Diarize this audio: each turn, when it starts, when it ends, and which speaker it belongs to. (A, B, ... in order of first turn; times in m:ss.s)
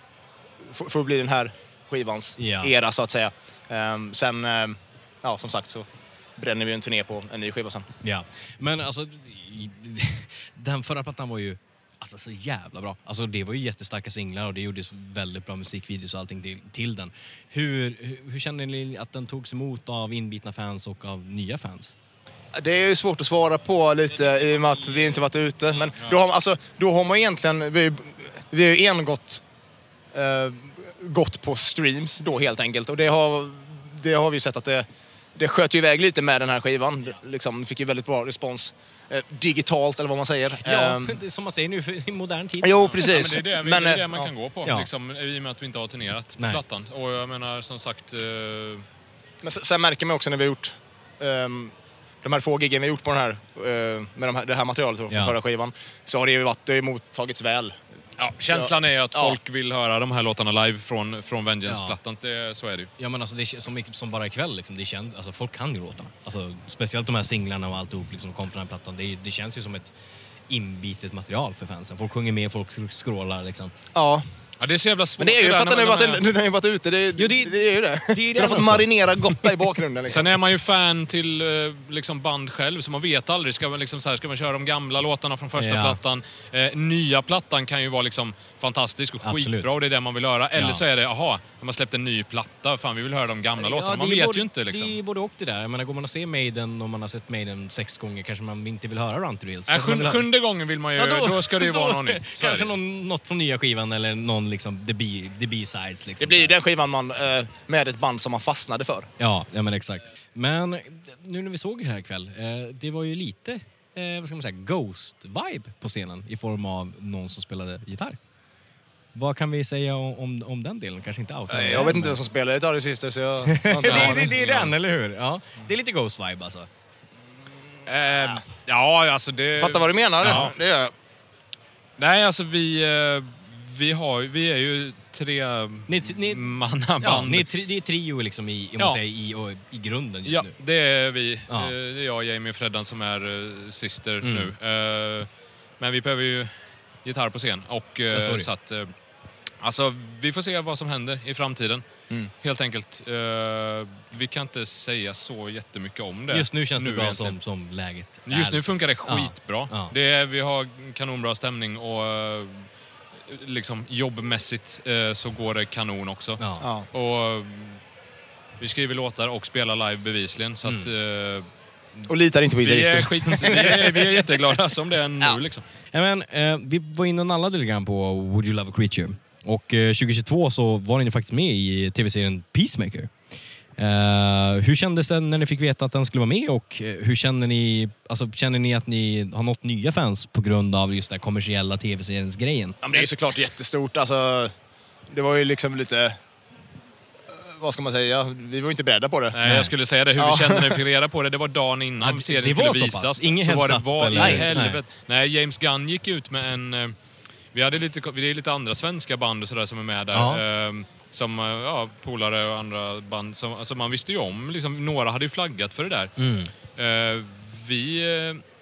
0:00.6-0:05.8 A
0:02.4-0:02.7 B
0:06.4-0:07.9 A
0:08.0-0:21.9 B
0:22.5-0:29.4 A
0:30.1-0:41.2 A
0:40.5-0:43.0 B
0:42.6-0:44.3 A
0:43.0-0:48.8 C
0:46.4-0:46.6 B
0:49.4-0:57.8 A
0:55.1-0:55.4 B
0:58.2-1:02.9 C
0:58.5-0:59.4 A
1:01.7-1:02.0 B
1:03.0-1:09.9 B
1:10.5-1:13.7 B
1:13.9-1:14.3 A
1:14.6-1:16.2 C
1:15.2-1:20.4 A
1:17.2-1:19.4 B
1:20.1-1:35.0 C
1:25.6-1:26.0 B
1:29.2-1:29.7 B
1:30.6-1:30.8 B
1:33.6-1:40.3 B
1:39.7-1:42.8 C
1:41.0-1:46.6 B
1:46.2-1:49.1 A
1:49.2-1:58.2 B
1:59.1-2:02.2 B
2:01.5-2:04.4 A
2:03.4-2:06.7 B
2:03.8-2:04.8 C
2:07.9-2:08.7 A
2:08.5-2:10.6 C
2:09.2-2:10.9 A
2:10.2-2:10.5 B
2:12.0-2:17.5 C
2:15.9-2:20.5 B
2:20.2-2:29.0 C
2:21.5-2:21.7 B
2:24.2-2:24.5 B
2:28.1-2:28.5 B
2:29.6-2:37.4 C
2:36.3-2:39.9 B
2:38.2-2:47.8 C
2:46.4-2:46.7 B
2:46.6-2:46.9 A
2:48.6-2:51.5 C
2:50.6-2:50.9 B
2:52.1-2:54.2 A
2:52.5-2:55.6 C
2:53.4-2:53.9 B
2:55.9-3:12.8 B
3:12.8-3:14.5 A
3:15.1-3:16.2 A
3:17.3-3:19.5 A
3:19.3-3:38.4 C
3:19.4-3:19.7 B
3:20.1-3:20.8 A
3:22.0-3:24.8 B
3:30.1-3:30.4 B
3:36.2-3:36.5 B